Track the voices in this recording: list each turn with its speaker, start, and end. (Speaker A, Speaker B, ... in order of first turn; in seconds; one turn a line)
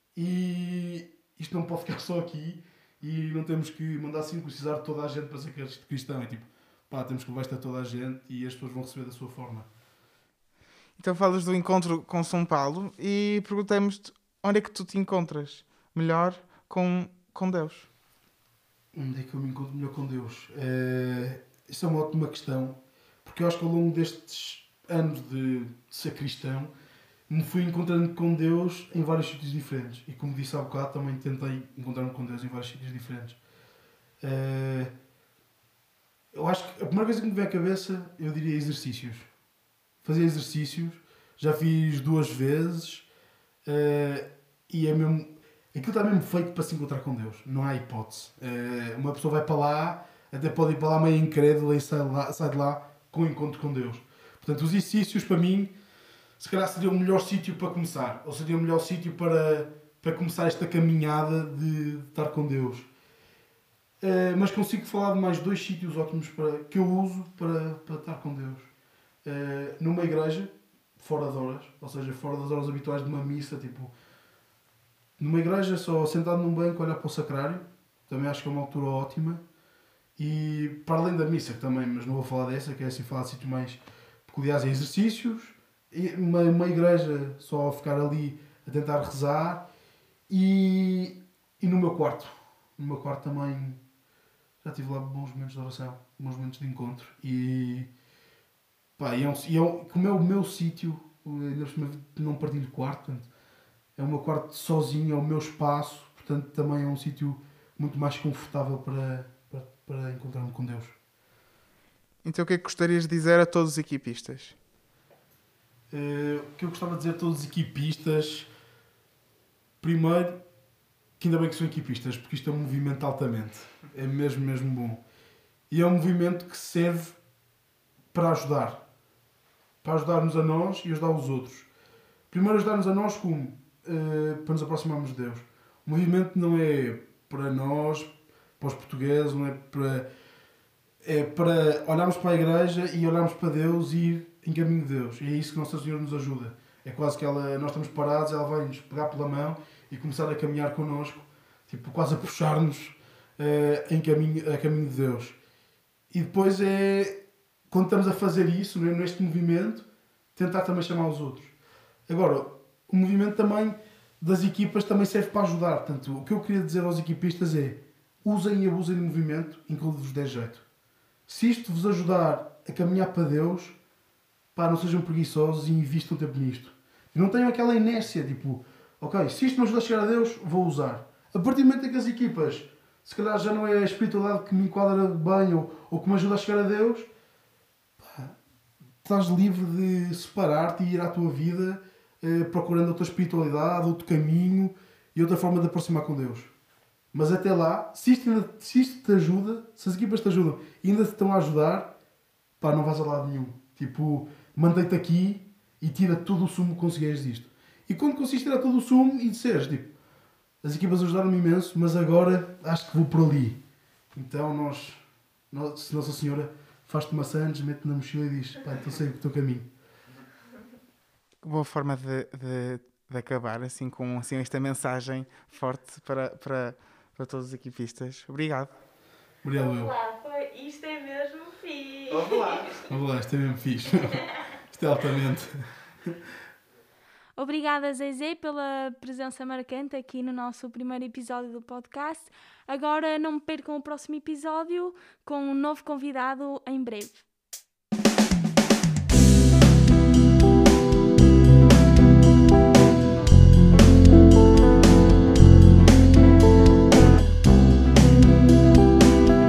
Speaker A: 0.1-9.7
Speaker B: 11.0-17.9
Speaker A: 18.9-26.7
Speaker A: 27.3-33.4
Speaker A: 34.2-34.9
Speaker A: 36.3-39.3
Speaker A: 40.0-43.1
Speaker A: 43.6-55.7
Speaker A: 56.4-62.9
Speaker A: 64.0-68.7
Speaker A: 69.2-73.9
Speaker A: 75.2-79.4
Speaker A: 80.2-89.7
Speaker A: 90.3-93.8
Speaker A: 94.6-97.9
Speaker A: 99.0-103.3
Speaker A: 104.0-111.0
Speaker B: 112.2-114.6
Speaker A: 115.9-118.5
Speaker A: 119.8-120.4
Speaker A: 121.2-125.0
Speaker A: 125.7-127.2
Speaker A: 128.1-128.8
Speaker A: 129.8-131.7
Speaker A: 132.3-140.1
Speaker A: 141.0-155.4
Speaker A: 156.1-161.5
Speaker A: 162.1-170.6
Speaker A: 171.3-173.8
Speaker A: 174.6-187.1
Speaker A: 188.0-188.4
Speaker A: 189.0-196.5
Speaker A: 197.1-201.9
Speaker A: 202.6-209.9
Speaker A: 210.6-213.6
Speaker A: 214.1-219.7
Speaker B: 221.4-228.7
Speaker A: 229.4-229.9
Speaker C: 229.6-232.9
Speaker A: 232.8-236.2
Speaker C: 237.4-247.2